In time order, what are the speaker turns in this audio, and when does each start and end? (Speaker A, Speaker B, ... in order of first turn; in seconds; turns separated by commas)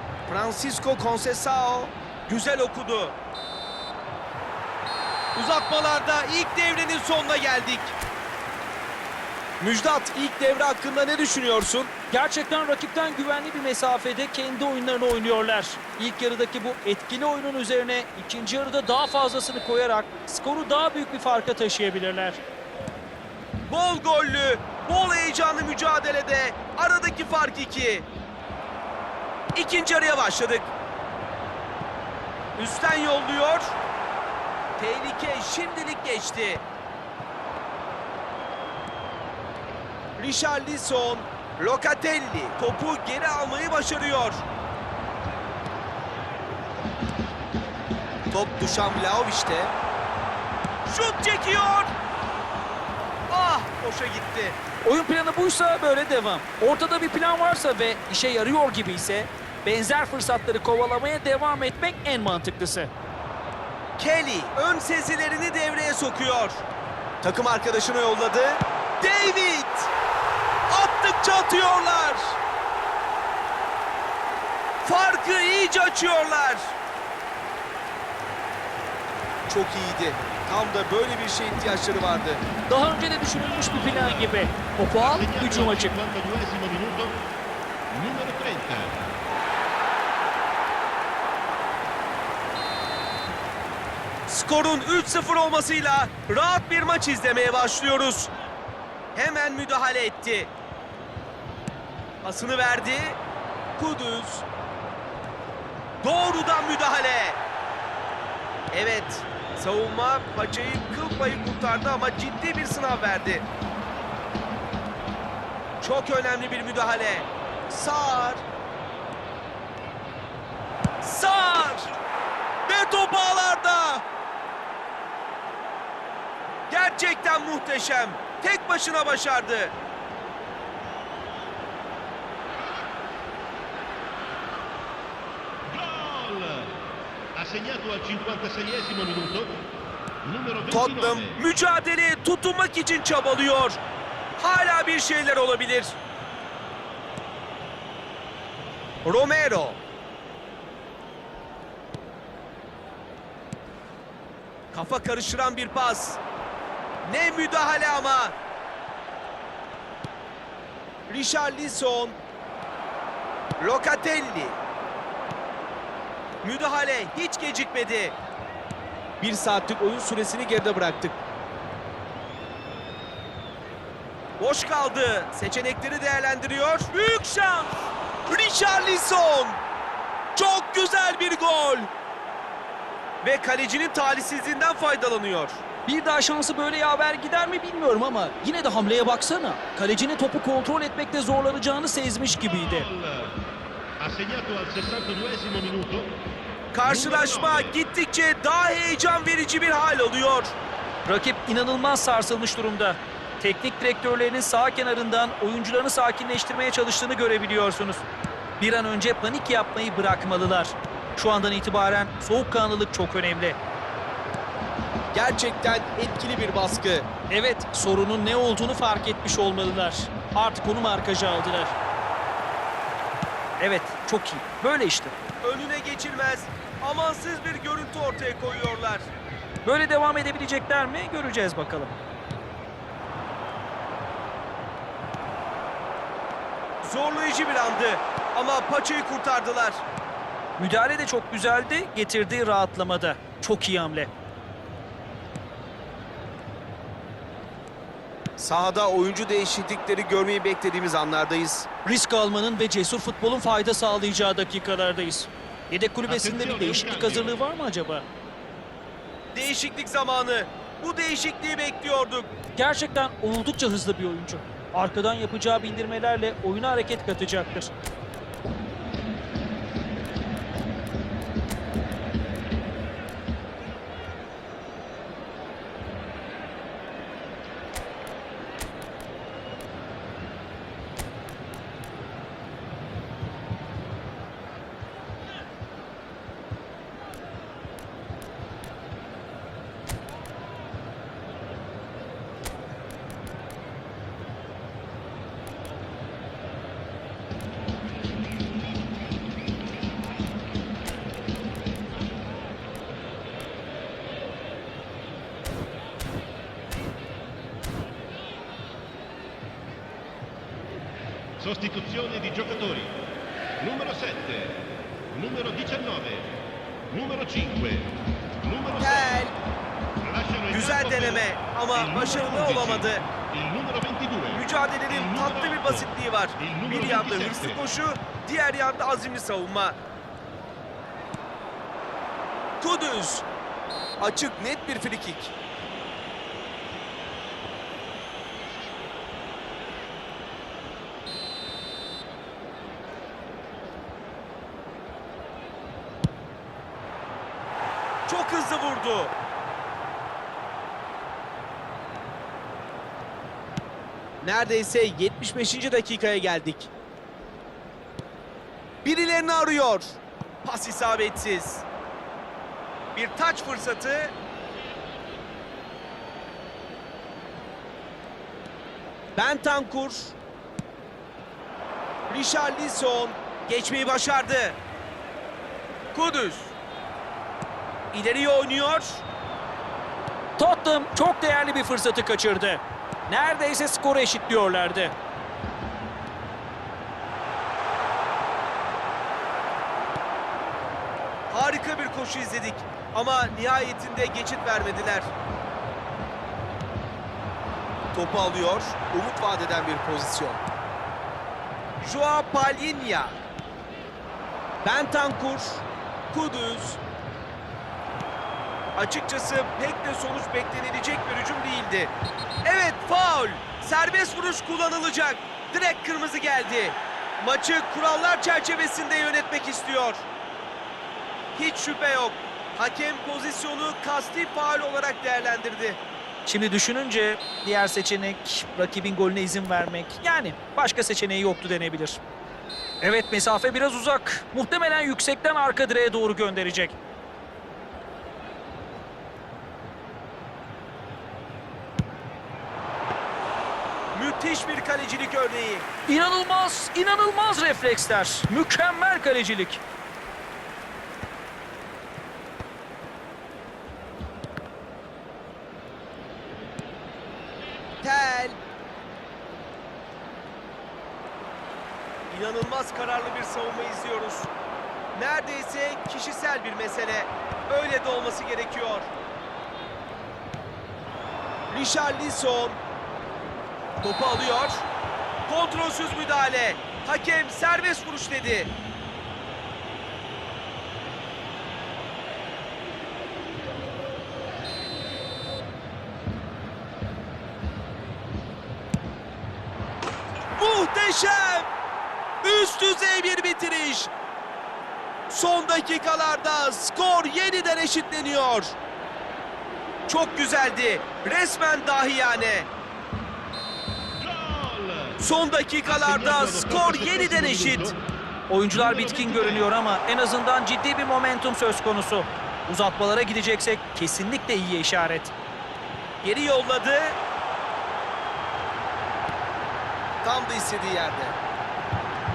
Speaker A: 0.3-3.1, Speaker A: 5.3-8.0, Speaker A: 9.6-11.9, Speaker B: 12.1-22.4, Speaker A: 23.7-28.1, Speaker A: 29.6-30.7, Speaker A: 32.6-33.8, Speaker A: 34.8-36.6, Speaker A: 40.2-44.4, Speaker A: 48.3-49.7, Speaker A: 50.9-51.9, Speaker A: 53.3-54.6, Speaker B: 54.8-62.9, Speaker A: 64.0-66.6, Speaker A: 67.2-69.9, Speaker A: 70.7-72.4, Speaker A: 74.8-76.8, Speaker A: 79.5-82.4, Speaker B: 82.7-86.0, Speaker C: 83.4-87.2, Speaker C: 87.9-89.1, Speaker A: 94.3-98.3, Speaker A: 99.2-100.5, Speaker A: 102.2-103.2, Speaker A: 103.8-104.5, Speaker A: 106.0-107.4, Speaker A: 108.7-113.5, Speaker A: 115.8-118.4, Speaker A: 121.0-121.9, Speaker A: 122.7-124.0, Speaker A: 126.7-129.7, Speaker C: 135.7-136.8, Speaker C: 137.3-139.7, Speaker C: 140.2-141.4, Speaker A: 140.7-143.8, Speaker A: 144.4-146.0, Speaker A: 149.1-149.8, Speaker A: 154.7-156.2, Speaker A: 157.0-158.3, Speaker A: 161.1-162.2, Speaker A: 163.6-164.6, Speaker A: 166.4-168.2, Speaker A: 169.2-171.2, Speaker A: 174.4-179.6, Speaker A: 180.4-181.9, Speaker A: 183.2-185.6, Speaker B: 185.9-192.9, Speaker C: 192.4-193.4, Speaker C: 194.0-196.2, Speaker A: 196.7-200.5, Speaker C: 196.8-197.8, Speaker B: 201.1-208.0, Speaker B: 208.6-213.6, Speaker A: 215.1-217.1, Speaker B: 217.3-221.7, Speaker B: 223.6-225.1, Speaker A: 225.4-229.1, Speaker B: 229.6-231.9, Speaker A: 236.8-239.8, Speaker B: 240.6-244.1, Speaker A: 248.4-251.7, Speaker B: 251.8-258.1, Speaker C: 256.1-257.4, Speaker A: 259.4-262.3, Speaker B: 262.6-267.7, Speaker C: 311.4-313.0, Speaker C: 313.6-316.3, Speaker C: 316.9-319.3, Speaker A: 318.8-319.3, Speaker C: 320.0-327.6, Speaker A: 320.5-323.0, Speaker A: 324.3-329.8, Speaker A: 332.6-333.2, Speaker A: 334.0-335.3, Speaker A: 348.1-349.1, Speaker A: 354.2-356.7, Speaker A: 358.9-361.6, Speaker A: 362.9-364.1, Speaker A: 369.2-370.2, Speaker A: 372.1-374.6, Speaker A: 375.9-376.5, Speaker A: 377.9-379.0, Speaker B: 380.4-384.9, Speaker A: 391.3-395.1, Speaker A: 397.9-400.4, Speaker A: 401.8-403.2, Speaker A: 404.6-406.8, Speaker A: 408.8-411.9, Speaker A: 412.4-420.0, Speaker A: 421.4-425.8, Speaker B: 426.3-432.0, Speaker B: 432.8-436.8, Speaker A: 443.9-445.7, Speaker B: 445.9-449.6, Speaker A: 457.8-458.4, Speaker A: 462.1-464.3, Speaker A: 464.9-468.9, Speaker A: 471.5-472.6, Speaker A: 473.8-474.6, Speaker A: 475.3-478.5, Speaker A: 490.4-491.5, Speaker A: 492.2-493.9, Speaker A: 495.1-498.6, Speaker A: 499.9-502.5, Speaker C: 504.0-505.0, Speaker A: 505.0-507.7, Speaker C: 505.6-507.8, Speaker B: 508.3-515.1, Speaker C: 508.5-509.5, Speaker A: 516.0-517.0, Speaker A: 520.0-521.2